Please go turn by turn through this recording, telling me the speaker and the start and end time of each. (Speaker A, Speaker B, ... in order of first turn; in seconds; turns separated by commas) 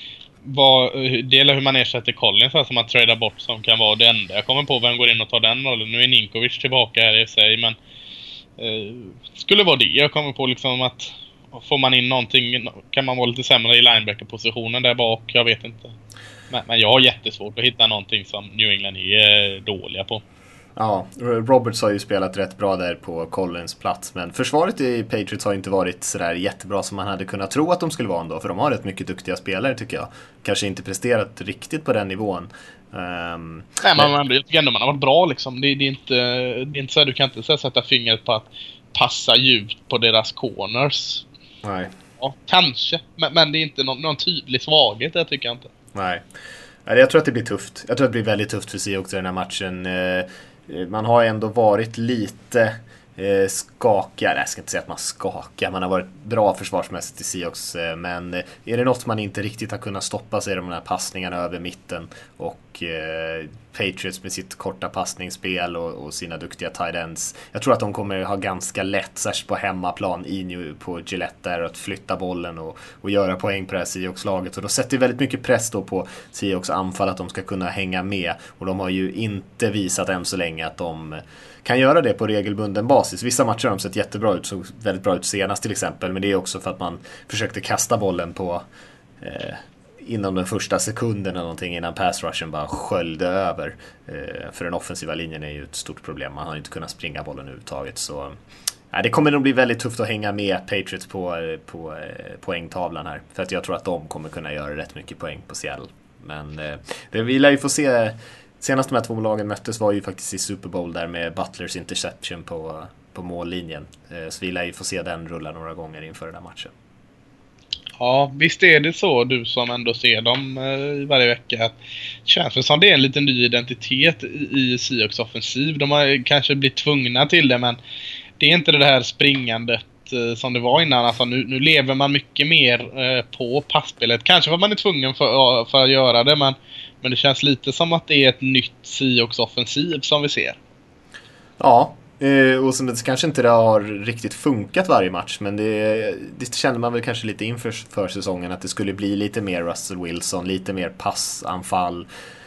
Speaker A: 0.4-7.8, Speaker A: 8.6-15.9, Speaker A: 16.5-20.2, Speaker B: 20.8-34.1, Speaker A: 33.8-41.2, Speaker B: 41.6-41.9, Speaker A: 42.2-45.7, Speaker B: 45.9-46.2, Speaker B: 46.9-88.6, Speaker B: 89.2-98.3, Speaker B: 98.9-116.7, Speaker A: 118.0-127.8, Speaker A: 128.4-140.6, Speaker B: 141.6-152.1